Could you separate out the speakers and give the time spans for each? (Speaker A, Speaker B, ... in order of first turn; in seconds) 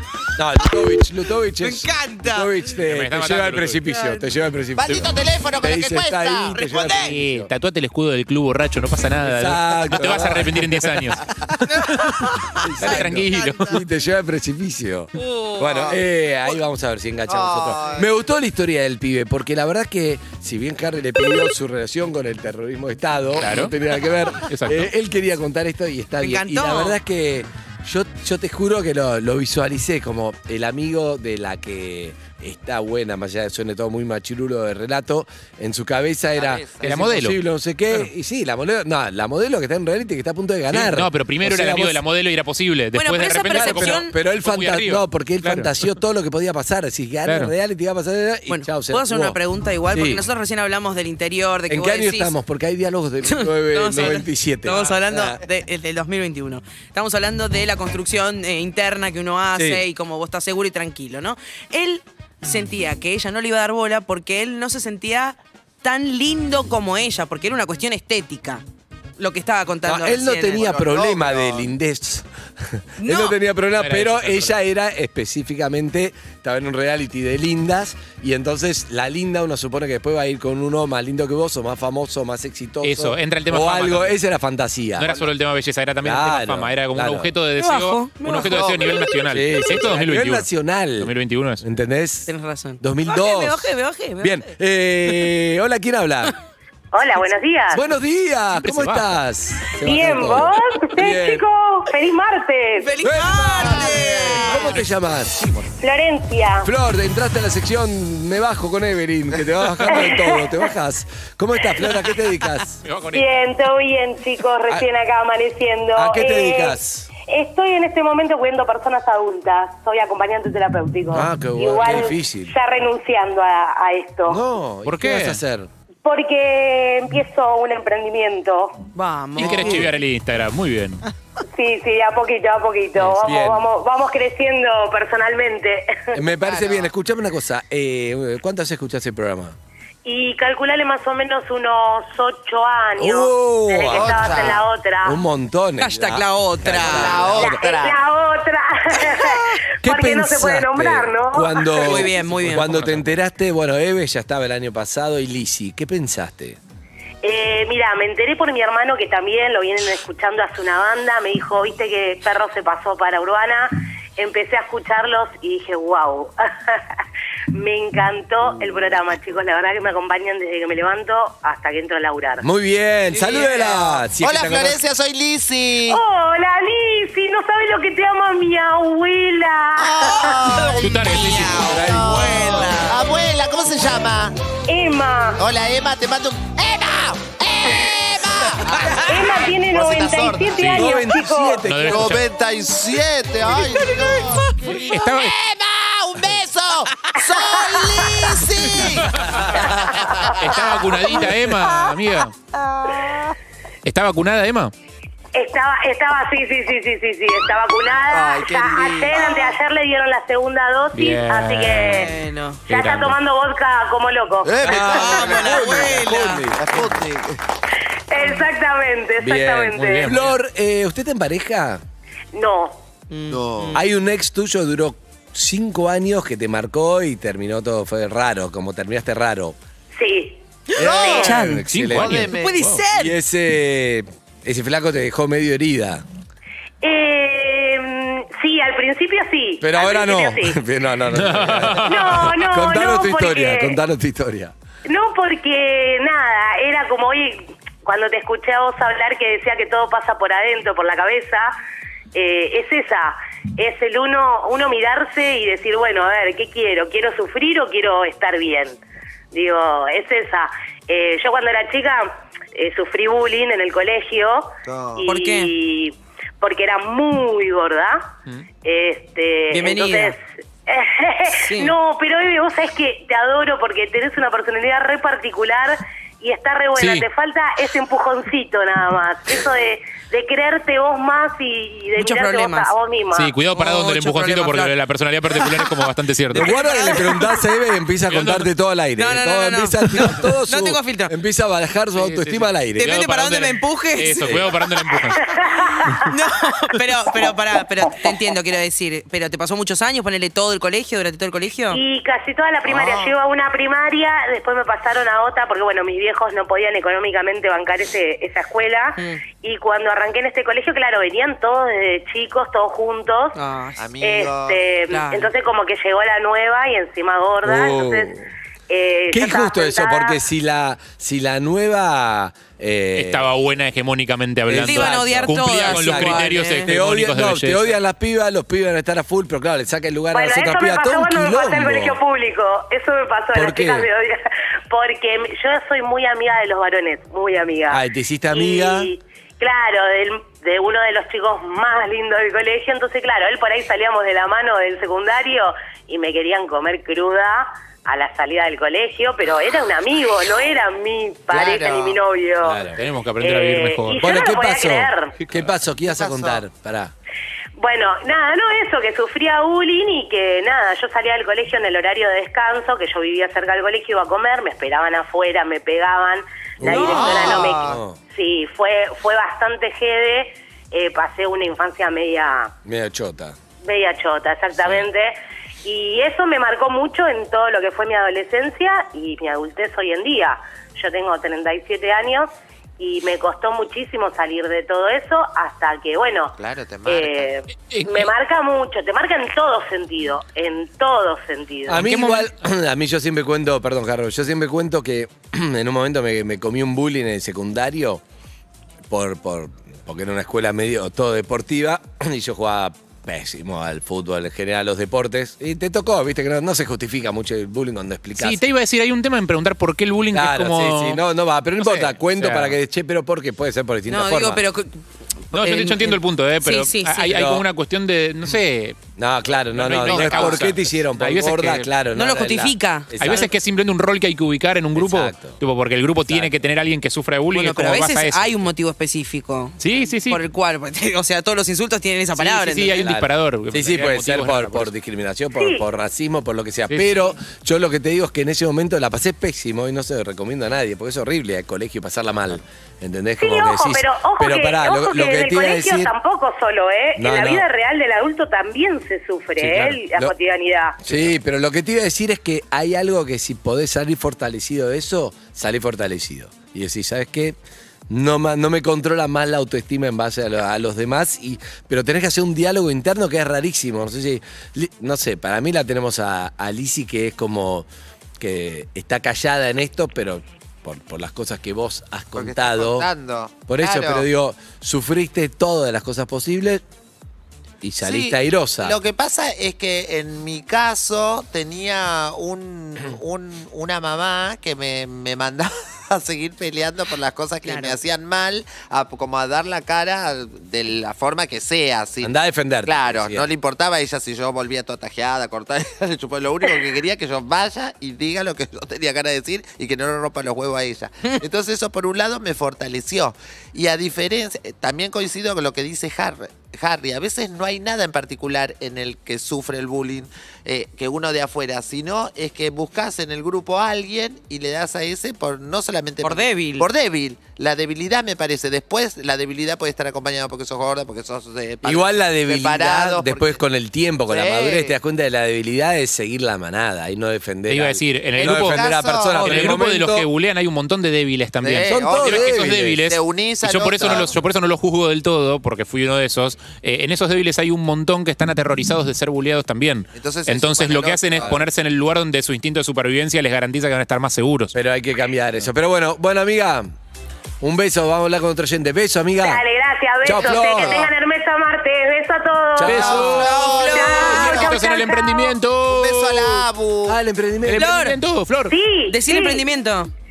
Speaker A: 0.4-7.5, 9.2-11.1, 12.6-42.0, 43.3-49.4, 49.9-50.2, 51.7-55.4, 59.5-59.8, 69.8-85.2, 86.0-87.3, 89.3-96.3, 97.7-101.5, 103.0-105.5, 106.6-112.8, 116.0-117.1, 121.1-122.5, 124.3-125.7, 129.4-129.9, 133.0-133.7, 136.1-139.6, 143.0-147.6, 149.8-156.6, 172.4-174.8, 181.4-182.7, 190.7-192.2, 214.6-217.0, 219.2-221.8, 223.7-229.6, 230.8-236.1, 239.6-244.5, 286.3-293.0, 294.0-294.6, 317.4-318.3, 319.1-323.3, 324.5-332.0, 333.3-333.9, 337.7-338.9, 352.4-352.8, 354.0-356.9, 366.6-368.0, 372.6-373.4, 391.7-398.0, 398.9-408.4, 410.1-414.4, 417.1-417.5, 419.0-423.3, 424.8-425.4, 426.1-426.4, 432.6-445.9, 447.0-447.5, 449.4-450.1, 450.9-457.4, 457.9-467.7, 468.2-472.9, 473.5-476.6, 477.6-478.8, 492.0-493.3, 521.6-530.1, 531.6-532.8, 544.5-546.7, 547.4-549.4, 550.0-550.9, 552.6-553.2, 556.9-557.8
Speaker B: 1.6-2.6, 3.9-4.2, 6.5-7.1, 11.7-13.8, 15.2-16.0, 26.2-27.0, 42.9-44.1, 48.5-52.3, 53.2-68.6, 69.2-70.7, 73.0-73.4, 87.6-89.0, 92.3-94.5, 102.8-104.6, 128.9-129.9, 145.8-147.2, 151.7-152.7, 173.1-173.7, 180.2-183.0, 202.6-203.2, 211.9-212.6, 214.8-216.5, 223.1-223.8, 230.7-231.6, 232.3-233.2, 265.1-265.5, 269.5-270.2, 271.4-271.8, 282.0-282.7, 283.5-284.8, 285.3-287.5, 289.0-291.1, 292.8-294.4, 296.1-301.8, 309.0-309.2, 313.3-313.9, 314.9-315.3, 324.6-326.7, 366.7-367.2, 413.9-414.8, 415.3-417.2, 419.8-420.5, 421.9-423.3, 427.3-432.8, 487.4-487.8, 516.0-516.7, 553.1-554.5, 557.5-558.0, 558.9-559.9
Speaker C: 2.9-3.8, 7.0-12.3, 12.8-13.8, 23.4-23.7, 24.5-24.9, 36.8-37.4, 40.7-45.7, 47.3-47.5, 73.8-74.6, 82.8-84.2, 85.0-90.5, 91.0-91.6, 98.6-99.1, 104.5-105.7, 112.8-113.3, 124.9-125.4, 129.4-131.0, 152.3-153.1, 180.8-181.7, 190.6-190.9, 191.7-192.2, 194.7-195.4, 198.8-199.4, 200.4-202.3, 203.8-204.7, 210.9-212.1, 212.7-213.2, 219.7-220.4, 231.5-232.8, 241.1-242.2, 276.8-277.0, 283.1-286.5, 288.1-288.5, 292.0-295.3, 322.9-327.8, 352.8-354.1, 387.7-388.1, 391.7-392.3, 408.2-411.0, 411.6-412.6, 415.3-418.8, 419.5-421.7, 423.0-428.4, 429.6-430.2, 432.2-434.7, 436.7-437.1, 527.5-544.5, 552.6-553.3, 553.9-556.5, 557.5-558.5
Speaker D: 4.8-7.1, 17.3-18.1, 36.4-37.0, 70.5-71.7, 103.5-104.5, 136.5-136.9, 143.9-144.6, 146.7-148.0, 173.3-176.0, 179.8-184.3, 185.4-190.8, 191.9-200.8, 208.1-209.6, 214.4-217.4, 223.3-223.8, 230.8-232.7, 264.7-265.1, 302.7-303.2, 313.8-314.6, 351.3-352.0, 355.9-356.4, 366.7-367.8, 386.4-387.3, 472.2-474.1, 477.8-492.1, 492.6-523.4, 524.1-524.7, 528.2-529.6, 531.4-534.2, 540.0-541.4, 552.6-554.5, 555.7-557.0
Speaker E: 96.9-97.8, 99.8-102.9, 105.8-106.7, 109.9-110.4, 113.1-124.4, 126.0-128.9, 131.5-136.1, 140.1-145.2, 147.3-152.0, 157.2-166.8, 167.5-172.5, 175.9-180.3, 184.7-185.4, 188.9-191.6, 205.3-212.1, 212.7-215.3, 218.1-220.1, 222.3-222.8, 229.9-231.3, 236.8-240.6, 241.8-243.8, 244.9-251.5, 252.1-258.8, 259.3-268.1, 268.6-283.3, 295.3-296.0, 301.7-313.4, 314.0-318.1, 318.7-320.2, 330.1-352.6, 353.2-355.1, 357.6-372.5, 373.6-391.9, 435.4-435.6, 443.2-450.8, 549.2-552.9, 553.6-555.3, 558.5-559.5